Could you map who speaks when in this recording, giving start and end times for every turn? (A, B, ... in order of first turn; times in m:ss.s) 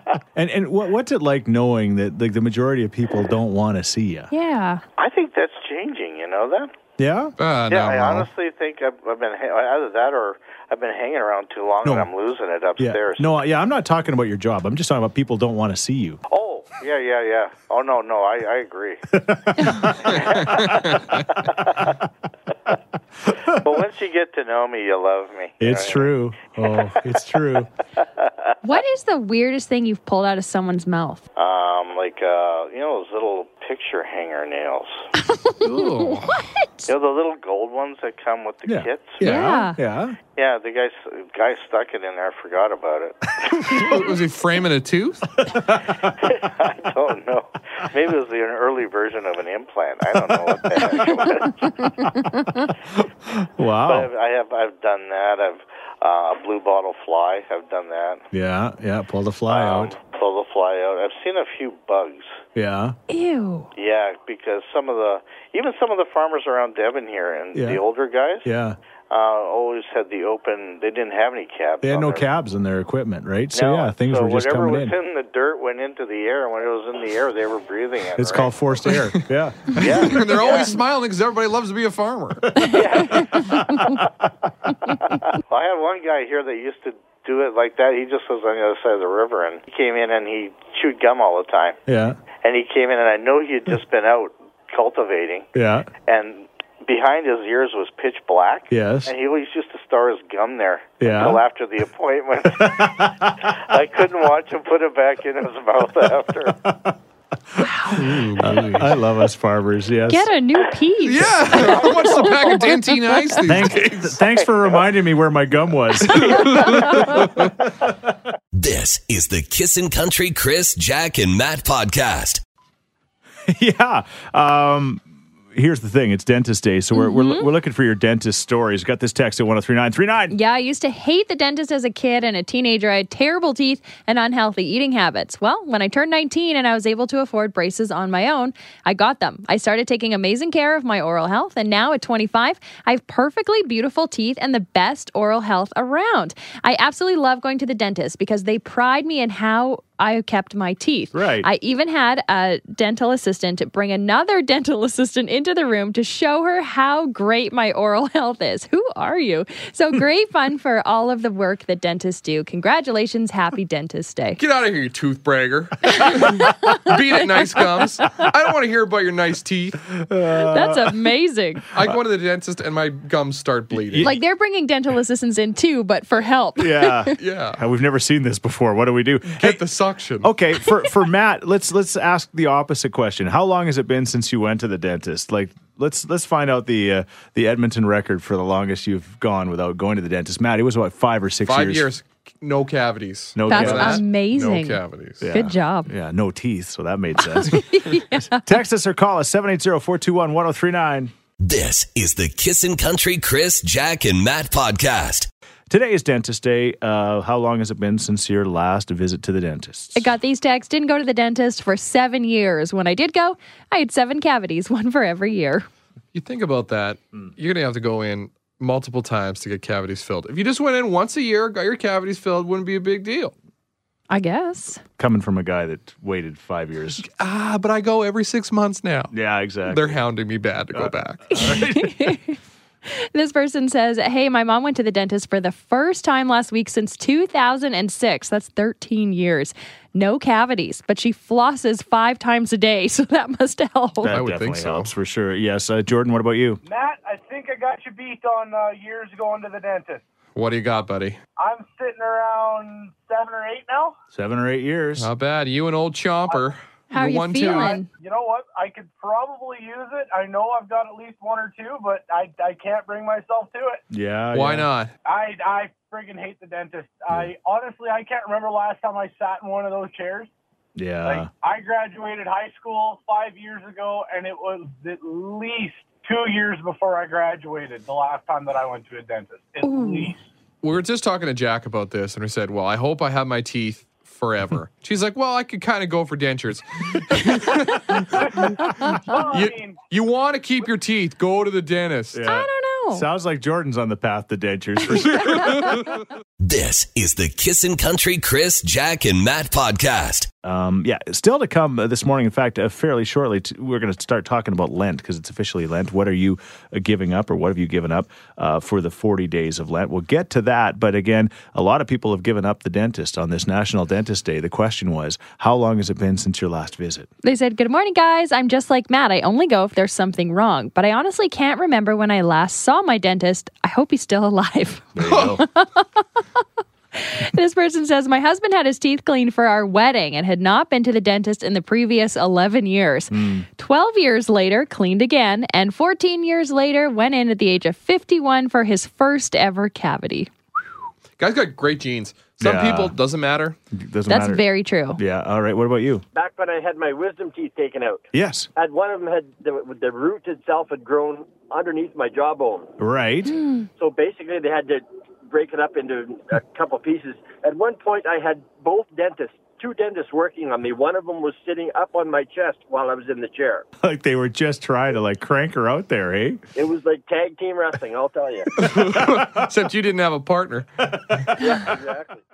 0:00.4-0:04.3 A
0:04.3-0:04.8 B
0:05.0-0:06.7 C
0:07.0-0:07.4 A
0:07.4-0:08.3 D
0:07.7-0:13.4 C
0:12.8-0:16.2 A
0:16.3-0:19.0 C
0:19.1-0:20.7 A
0:19.6-0:19.9 B
0:19.9-0:21.9 C
0:20.1-0:21.3 D
0:23.5-0:26.1 C
0:25.6-0:27.7 A
0:28.6-0:31.2 B
0:31.4-0:35.1 C
0:35.2-0:36.9 B
0:35.6-0:36.5 D
0:36.9-0:39.5 C
0:38.7-0:40.2 A
0:39.2-0:39.8 B
0:40.4-0:43.9 C
0:43.7-0:45.3 D
0:45.4-0:46.0 A
0:46.3-0:51.9 C
0:50.5-0:51.1 A
0:52.0-0:52.7 B
0:53.0-0:54.1 A
0:53.9-0:58.2 C
0:58.3-0:59.9 A
0:59.5-1:02.4 C
1:02.6-1:03.0 A
1:03.1-1:03.7 B
1:03.8-1:08.5 C
1:07.5-1:07.8 A
1:08.4-1:08.8 A
1:09.1-1:12.3 C
1:11.8-1:15.0 A
1:13.5-1:18.9 C
1:18.2-1:20.3 A
1:18.9-1:22.5 D
1:19.8-1:20.8 C
1:22.6-1:23.9 A
1:22.7-1:23.7 C
1:23.1-1:24.0 B
1:25.5-1:31.8 C
1:31.9-1:32.2 A
1:32.4-1:35.5 C
1:35.5-1:35.9 A
1:36.0-1:46.6 C
1:38.7-1:39.1 A
1:41.0-1:41.4 A
1:42.6-1:43.4 A
1:46.6-1:47.0 A
1:47.5-1:50.3 A
1:47.6-1:48.0 B
1:48.0-1:48.9 D
1:50.1-1:53.4 B
1:51.0-1:54.2 D
1:53.4-1:58.1 A
1:54.4-1:54.8 C
1:56.1-1:57.2 B
1:56.1-1:57.2 D
1:58.5-2:02.4 E
2:03.5-2:10.4 A
2:06.9-2:07.5 B
2:10.3-2:44.4 B
2:31.1-2:31.5 A
2:44.4-2:49.9 D
2:45.9-2:47.0 B
2:47.6-2:47.8 B
2:50.0-2:51.1 A
2:50.4-2:51.6 B
2:51.7-2:54.1 D
2:53.7-2:54.2 A
2:54.0-2:57.2 B
2:56.6-2:59.6 A
2:57.2-2:57.6 D
2:59.3-3:00.3 D
3:00.2-3:11.9 A
3:11.4-3:15.2 D
3:13.4-3:14.0 A
3:13.5-3:15.9 B
3:15.2-3:21.1 A
3:17.2-3:18.6 B
3:21.4-3:25.3 E
3:25.7-3:30.1 A
3:30.0-3:35.7 B
3:36.1-3:43.3 D
3:44.1-3:44.8 B
3:45.0-3:47.0 A
3:47.1-3:49.1 D
3:49.1-3:50.0 A
3:49.7-3:51.4 D
3:50.7-3:52.2 A
3:51.3-4:04.2 B
4:04.0-4:06.6 A
4:04.1-4:04.9 D
4:06.6-4:10.0 F
4:10.4-4:11.2 D
4:11.4-4:14.0 F
4:14.1-4:15.1 A
4:15.0-4:17.8 D
4:16.9-4:17.9 B
4:17.4-4:23.8 F
4:23.9-4:24.7 A
4:24.3-4:24.9 D
4:25.0-4:30.3 F
4:30.8-4:31.3 A
4:31.0-4:40.2 F
4:39.6-4:40.1 B
4:40.6-4:48.5 D
4:48.2-4:49.8 F
4:49.3-4:52.2 D
4:52.1-4:55.8 A
4:52.3-4:53.1 B
4:55.1-4:55.8 D
4:55.1-4:55.7 B
4:56.4-5:00.3 E
5:00.4-5:17.1 A
5:17.2-5:26.0 B
5:25.0-5:25.4 A
5:25.0-5:25.4 D
5:27.0-5:40.3 B
5:33.1-5:33.5 A
5:41.2-5:43.6 D
5:42.4-5:43.0 A
5:43.7-5:46.0 A
5:44.1-5:45.0 B
5:46.1-5:52.7 G
5:48.1-5:48.5 A
5:52.8-5:53.4 A
5:53.3-5:53.7 B
5:53.8-6:03.7 G
6:03.8-6:06.4 A
6:06.6-6:08.5 G
6:08.6-6:10.8 D
6:09.0-6:09.3 A
6:11.4-6:12.2 G